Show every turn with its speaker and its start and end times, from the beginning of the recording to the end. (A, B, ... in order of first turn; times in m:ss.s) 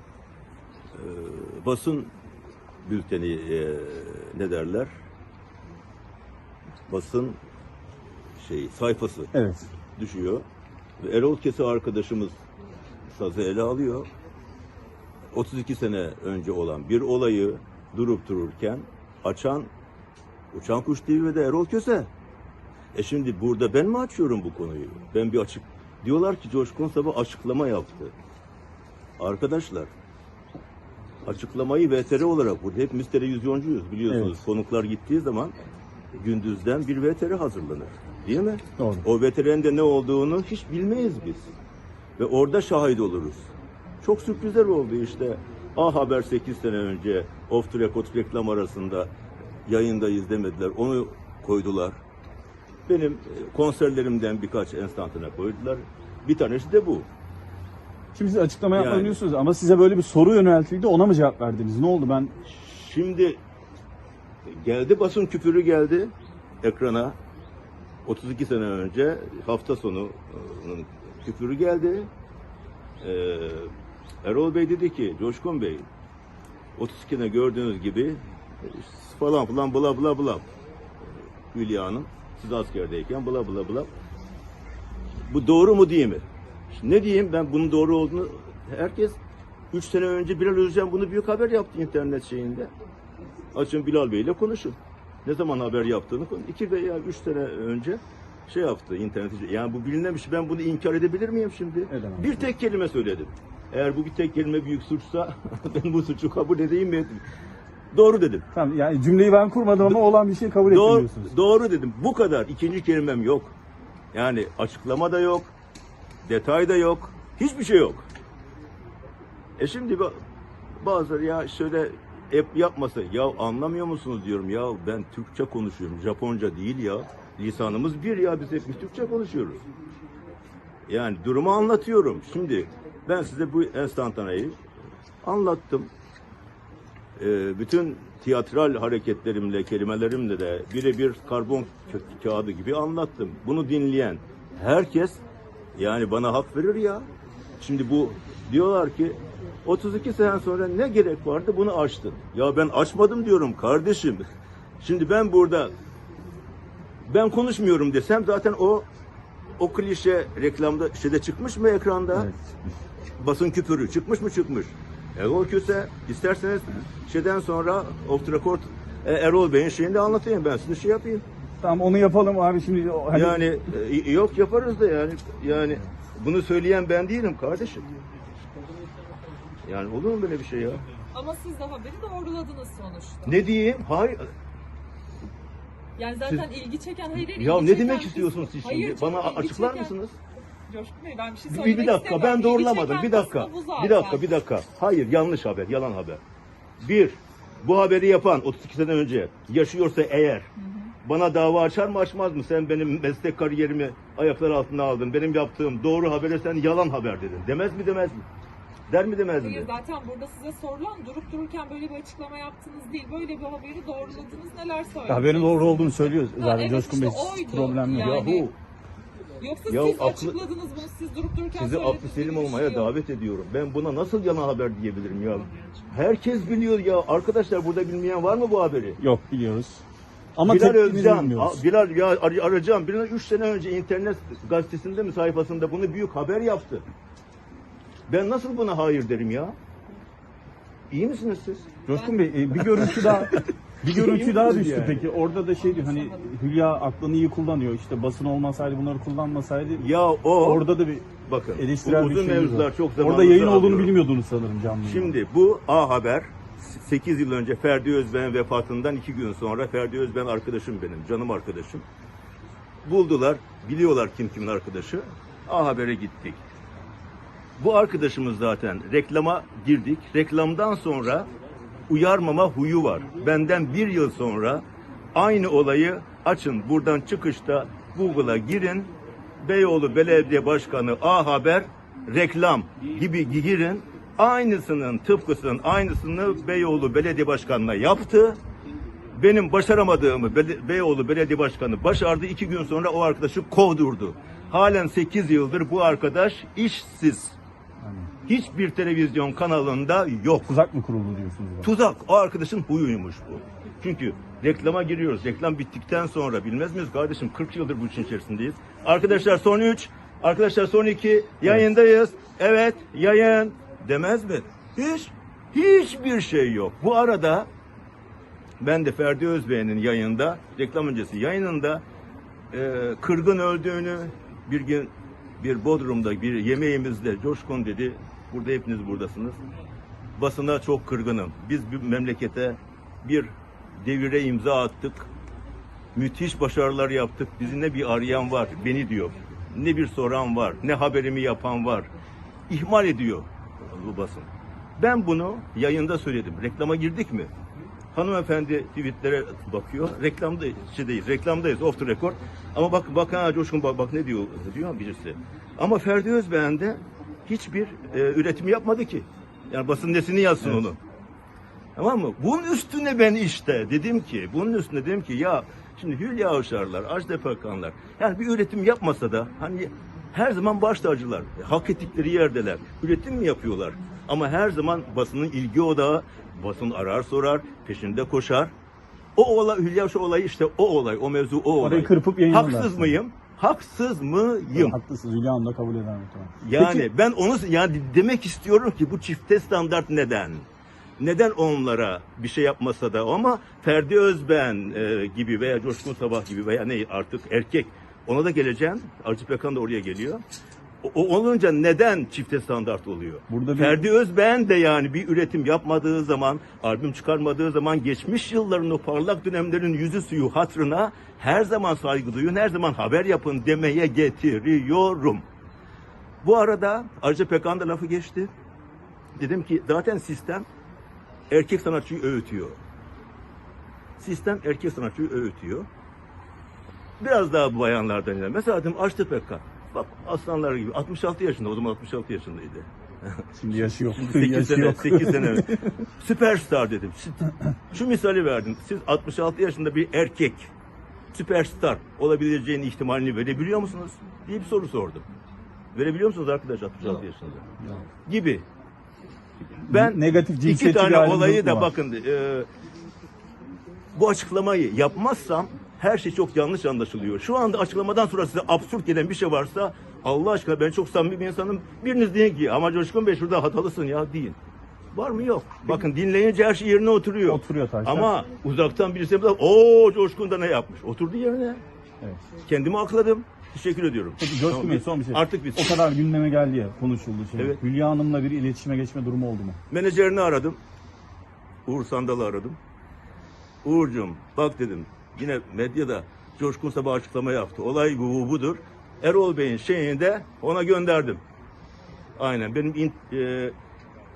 0:00.9-0:02.1 A
0:02.8-0:04.9 A
0:06.9-0:07.4 A
0:08.4-0:09.3 A
0:09.3-0:09.7 B
0:10.0-0:10.4 A
0:11.0-0:12.4 A
0:13.1-0:14.1 A
0:15.3-0:19.7 A
0:20.5-0:22.1 A
0:22.9-0:28.1 A
0:29.2-0:29.9 A
0:31.2-0:35.5 A
0:34.1-0:34.4 B
0:36.1-0:41.5 A
0:38.8-0:39.0 B
0:42.2-0:43.5 A
0:44.0-0:49.1 A
0:49.7-0:52.0 A
0:52.9-0:57.1 A
0:58.1-1:02.3 B
0:58.7-0:59.2 A
1:02.4-1:03.4 A
1:04.4-1:07.2 A
1:08.0-1:12.1 A
1:13.0-1:13.7 A
1:14.2-1:15.8 A
1:16.8-1:20.4 A
1:21.5-1:23.9 A
1:25.3-1:29.2 A
1:29.7-1:32.7 A
1:33.5-1:47.2 A
1:41.9-1:42.5 B
1:47.9-1:48.5 A
1:48.5-1:51.3 B
1:50.7-1:53.6 A
1:54.1-1:55.5 A
1:56.2-1:58.1 A
1:59.6-2:00.2 A
2:00.8-2:09.6 A
2:10.9-2:14.6 A
2:15.2-2:15.9 A
2:17.2-2:25.2 A
2:25.8-2:27.1 A
2:27.6-2:34.2 A
2:34.8-2:35.7 A
2:37.1-2:38.9 A
2:39.6-2:42.3 A
2:42.1-2:42.8 B
2:43.2-2:51.2 A
2:51.6-2:53.4 B
2:53.1-2:57.9 A
2:59.6-3:00.8 A
3:01.1-3:03.4 C
3:03.2-3:04.3 A
3:06.0-3:09.9 C
3:07.2-3:10.2 A
3:10.7-3:14.3 C
3:11.5-3:16.2 A
3:16.8-3:20.5 A
3:20.6-3:20.9 C
3:21.0-3:28.2 A
3:28.9-3:29.7 A
3:29.4-3:35.6 C
3:35.1-3:38.2 B
3:36.2-3:38.5 C
3:37.9-3:38.5 A
3:39.4-3:42.9 C
3:39.7-3:40.4 A
3:41.5-3:49.0 A
3:49.0-3:49.8 B
3:50.4-3:51.6 B
3:50.4-3:56.8 A
3:58.1-3:59.6 A
4:00.9-4:01.7 A
4:01.9-4:09.8 B
4:01.9-4:02.2 C
4:03.9-4:05.0 A
4:05.6-4:06.3 C
4:09.8-4:10.7 A
4:10.4-4:15.2 B
4:11.3-4:14.0 A
4:14.8-4:21.8 A
4:22.8-4:26.4 A
4:27.6-4:31.3 A
4:31.9-4:38.9 A
4:39.4-4:48.4 A
4:49.1-4:57.4 A
4:57.8-4:58.1 B
4:58.2-5:00.5 A
5:00.5-5:01.7 B
5:01.6-5:17.5 A
5:18.6-5:21.8 A
5:22.5-5:29.4 A
5:30.2-5:35.1 A
5:35.9-5:41.9 A
5:42.5-5:47.3 A
5:47.9-6:00.8 A
6:01.8-6:18.5 A
6:19.2-6:24.8 A
6:21.6-6:22.9 B
6:24.5-6:26.9 B
6:26.4-6:30.4 A
6:31.0-6:40.2 A
6:40.8-6:55.2 A
6:43.3-6:43.8 B
6:56.2-6:58.3 A
6:59.2-7:00.4 A
7:01.3-7:02.6 A
7:04.0-7:05.7 A
7:07.0-7:13.3 A
7:13.4-7:15.7 B
7:13.9-7:20.5 A
7:21.1-7:25.1 A
7:25.7-7:28.4 A
7:29.6-7:31.7 B
7:29.7-7:32.5 A
7:33.9-7:44.4 A
7:44.9-7:51.6 A
7:47.2-7:48.1 B
7:52.4-7:55.8 A
7:54.2-7:59.6 B
7:59.7-8:00.6 A
8:01.6-8:02.6 A
8:03.6-8:11.2 A
8:12.2-8:13.5 A